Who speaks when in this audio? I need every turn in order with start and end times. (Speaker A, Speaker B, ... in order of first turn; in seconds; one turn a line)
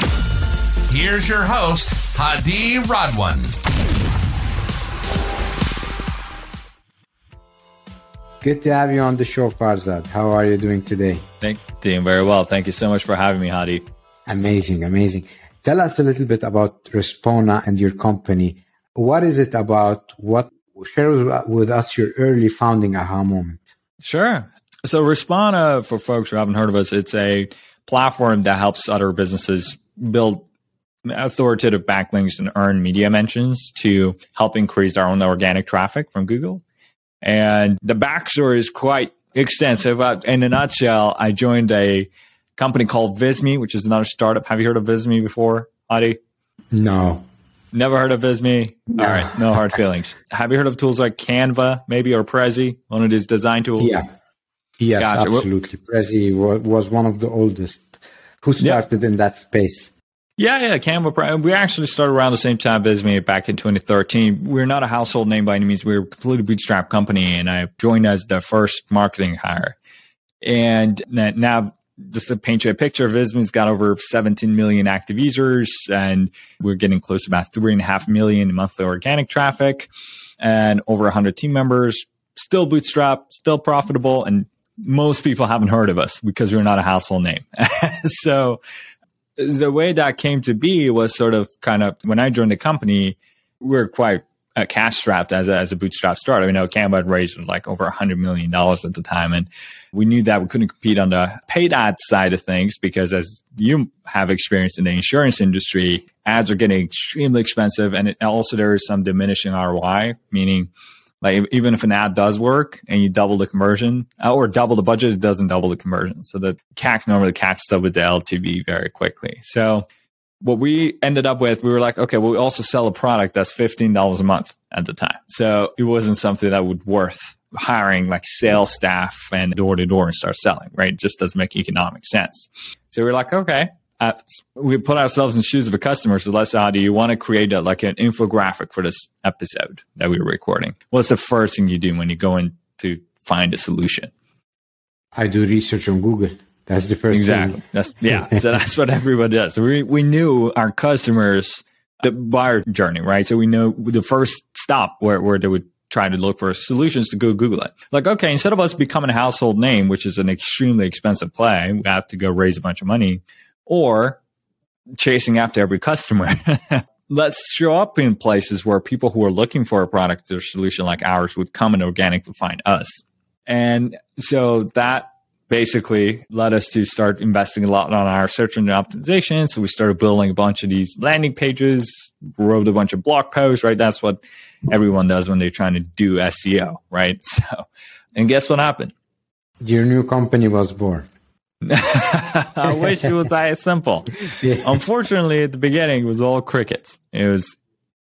Speaker A: 0.9-3.5
Speaker B: 8.4-11.2
Speaker C: 11.4-13.8
Speaker B: 14.3-23.7
Speaker C: 24.0-30.5
Speaker C: 31.1-36.6
Speaker C: 37.2-46.2
Speaker B: 46.7-47.3
Speaker C: 47.7-54.0
Speaker B: 49.0-49.3
Speaker B: 53.8-54.1
Speaker B: 54.8-59.9
Speaker C: 55.0-55.5
Speaker C: 60.4-69.8
Speaker C: 70.4-79.9
Speaker C: 80.4-88.6
Speaker C: 89.4-110.7
Speaker C: 111.2-119.9
Speaker C: 120.4-144.1
Speaker B: 145.1-148.3
Speaker C: 147.1-164.2
Speaker C: 165.0-188.9
Speaker B: 189.6-191.1
Speaker C: 191.7-197.6
Speaker B: 192.7-193.1
Speaker B: 194.2-194.8